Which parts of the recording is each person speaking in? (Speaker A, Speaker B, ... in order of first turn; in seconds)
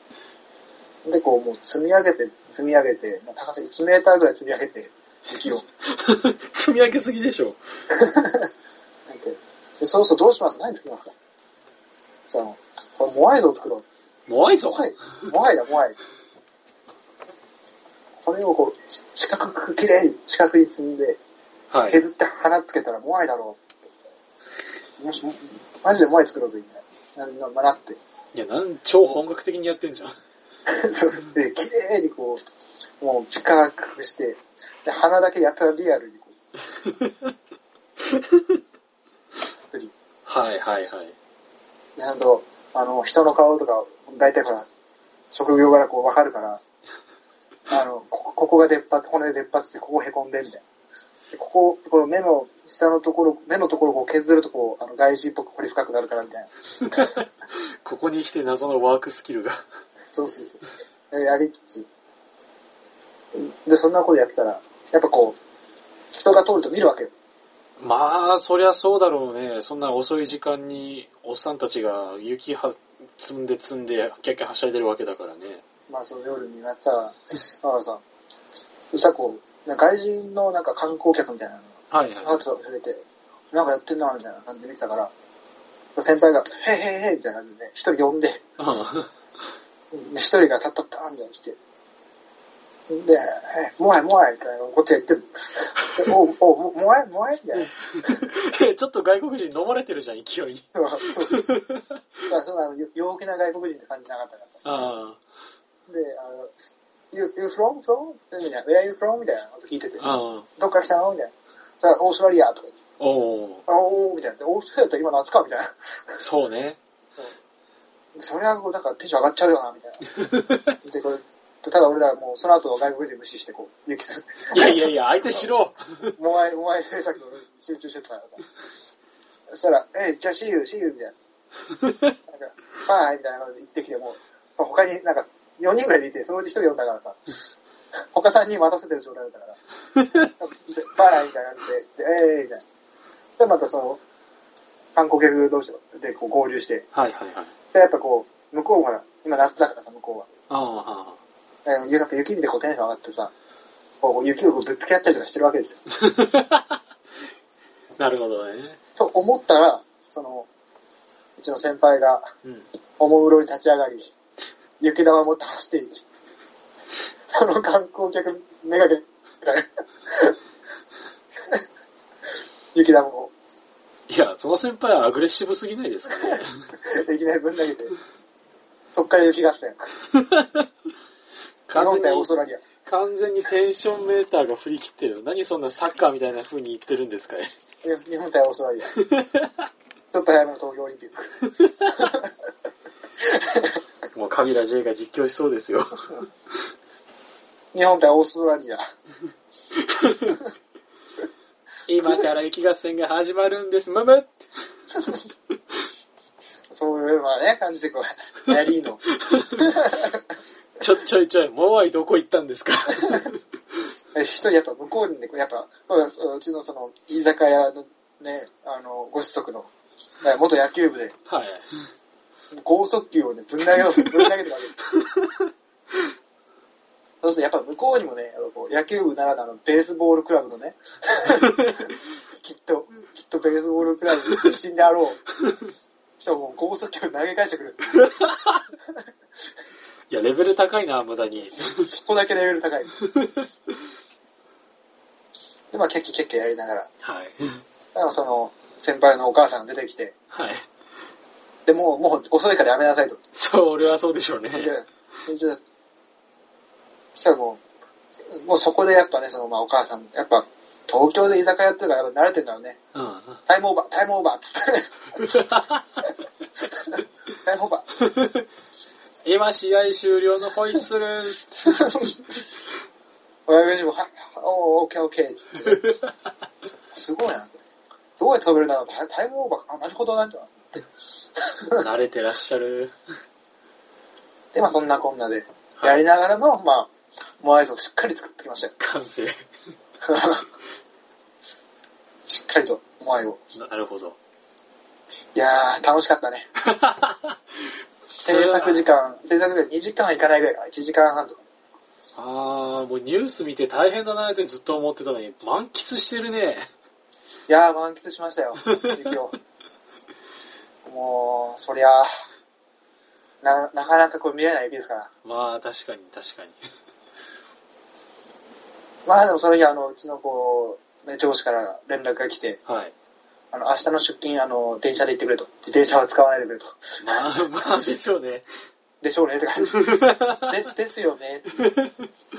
Speaker A: 1.0-5.6, 7.9-8.5, 9.1-11.1, 12.3-13.8, 14.7-16.0, 18.2-21.2, 21.9-23.6, 25.0-28.0, 30.7-32.4, 33.0-36.4, 42.0-44.7, 45.3-46.6, 47.7-50.6, 51.3-57.0, 60.1-61.9, 63.4-65.4, 66.1-67.1, 75.9-78.0, 78.9-85.1, 85.9-88.4, 89.9-91.6, 92.9-97.7, 100.7-101.5, 102.2-104.6, 105.9-106.6, 107.1-112.7, 113.7-116.2, 118.1-120.1, 120.8-125.5, 126.2-128.4, 129.5-131.1, 132.3-137.2, 138.1-139.6, 140.2-142.6, 143.4-144.0, 144.9-146.9, 147.7-150.3, 151.6-153.3, 154.0-155.8, 159.0-160.5, 161.4-162.3, 163.0-164.1, 164.8-166.0, 167.3-170.4, 172.7-173.3, 176.2-177.9, 178.9-179.9, 181.7-182.6, 187.8-189.0, 190.1-192.2, 197.7-198.8, 204.9-205.2, 206.7-209.0, 209.6-210.2, 214.1-219.7, 220.2-221.2, 222.5-224.9, 227.2-235.2, 236.2-238.2, 241.6-243.0, 245.7-246.9, 247.9-250.1, 251.7-253.2, 254.5-255.6, 257.1-257.6, 258.2-262.8, 263.4-265.4, 267.4-268.0, 271.7-272.2, 273.4-276.0, 276.9-277.6, 278.2-280.8, 284.5-288.7, 290.0-290.4, 292.2-293.4, 295.4-296.5, 298.2-301.4, 307.5-309.4, 310.9-312.1, 313.4-315.1, 319.1-322.6, 323.5-326.8, 329.0-331.7
Speaker B: 5.9-7.6, 14.3-14.9, 21.7-22.0, 28.3-30.2, 40.2-41.1, 56.9-59.6, 67.8-75.6, 81.9-82.4, 88.6-89.1, 98.0-102.0, 104.6-105.2, 110.0-110.5, 113.0-113.6, 116.2-116.8, 120.2-120.7, 124.5-126.1, 146.9-147.5, 150.5-151.2, 156.0-156.8, 158.0-158.8, 174.1-176.6, 180.2-180.6, 181.7-182.3, 182.8-187.5, 189.0-189.5, 194.1-196.2, 199.9-200.4, 201.9-204.4, 209.3-209.7, 210.8-213.4, 221.3-221.7, 223.9-224.3, 225.0-225.5, 231.6-231.9, 238.0-238.6, 240.1-241.9, 243.0-243.5, 247.0-247.6, 250.3-250.6, 253.3-254.8, 262.9-263.4, 265.2-265.7, 268.0-268.4, 269.2-272.0, 281.8-282.9, 285.8-286.0, 288.8-289.4, 293.5-294.2, 296.6-297.3, 298.2-298.9, 302.1-306.7, 315.2-316.6, 322.6-322.9, 327.0-328.4, 329.8-330.6, 331.6-332.0